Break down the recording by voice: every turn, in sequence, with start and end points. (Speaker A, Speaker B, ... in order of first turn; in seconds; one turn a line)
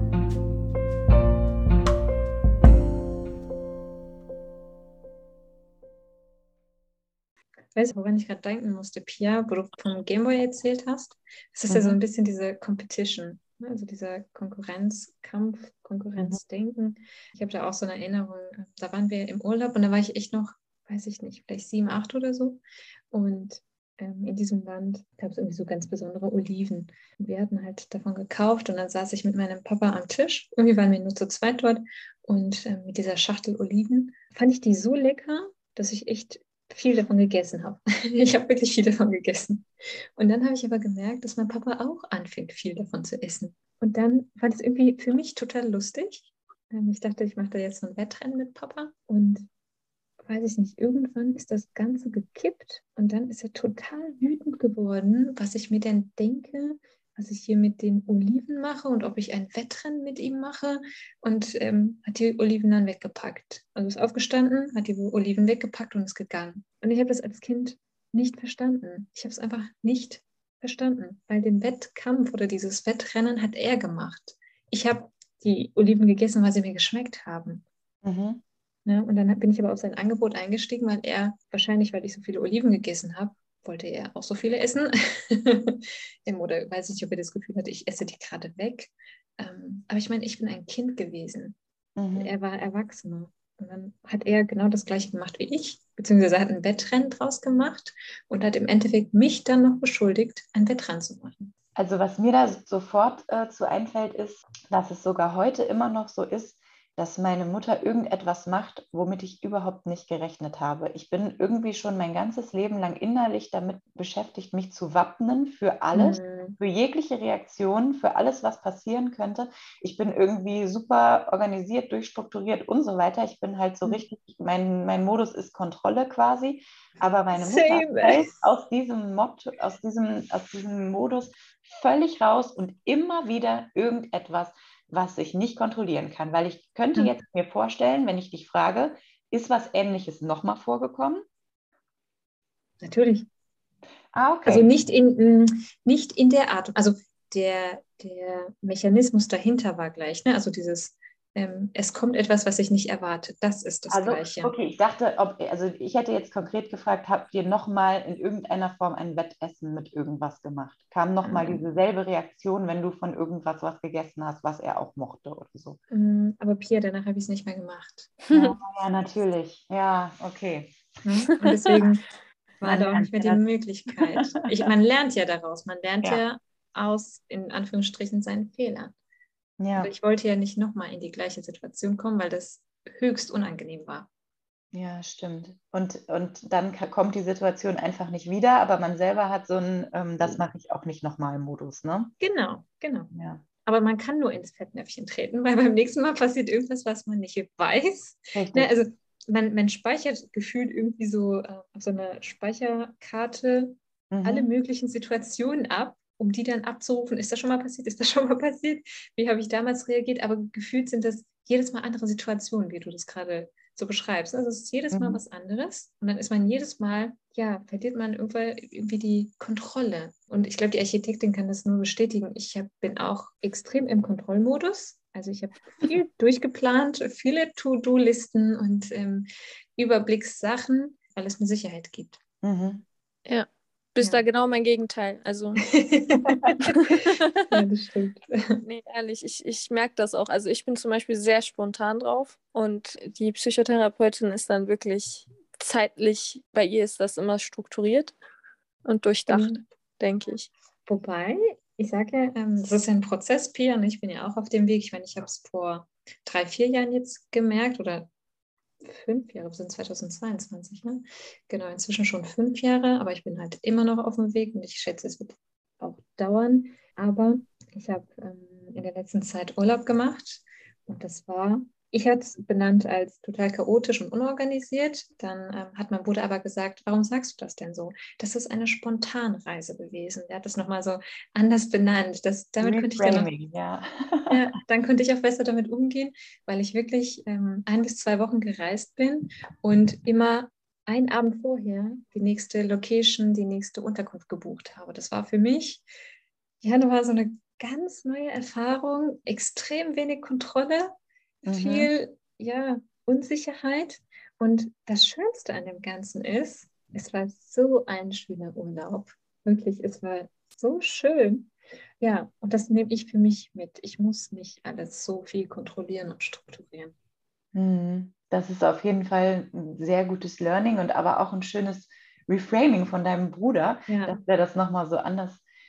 Speaker A: 7.7-49.5
Speaker B: 11.7-12.0
Speaker A: 50.2-77.6
Speaker B: 78.0-78.4
Speaker A: 78.8-91.6
Speaker B: 92.0-92.3
Speaker A: 92.1-101.5
Speaker B: 101.8-141.2
Speaker A: 115.9-116.6
Speaker A: 127.3-128.3
Speaker A: 142.8-143.3
Speaker B: 144.1-144.7
Speaker A: 144.5-154.5
Speaker B: 153.9-165.8
Speaker A: 161.2-161.6
Speaker A: 165.9-168.3
Speaker B: 168.3-170.7
Speaker A: 171.0-172.1
Speaker A: 172.6-178.9
Speaker B: 172.6-173.4
Speaker B: 179.6-179.9
Speaker A: 179.8-184.1
Speaker B: 184.7-192.1
Speaker A: 192.2-193.1
Speaker B: 193.1-193.4
Speaker A: 193.6-232.2
Speaker B: 198.3-198.7
Speaker B: 204.1-204.5
Speaker B: 214.9-215.2
Speaker B: 232.4-232.8
Speaker C: 233.2-235.6
Speaker A: 235.6-238.6
Speaker C: 236.7-237.4
Speaker C: 238.6-248.1
Speaker C: 248.8-250.5
Speaker A: 249.3-249.6
Speaker A: 250.9-258.1
Speaker A: 258.8-283.3
Speaker B: 282.6-284.4
Speaker A: 284.3-295.9
Speaker A: 296.6-316.9
Speaker B: 301.4-301.9
Speaker B: 317.5-325.4
Speaker A: 323.9-324.2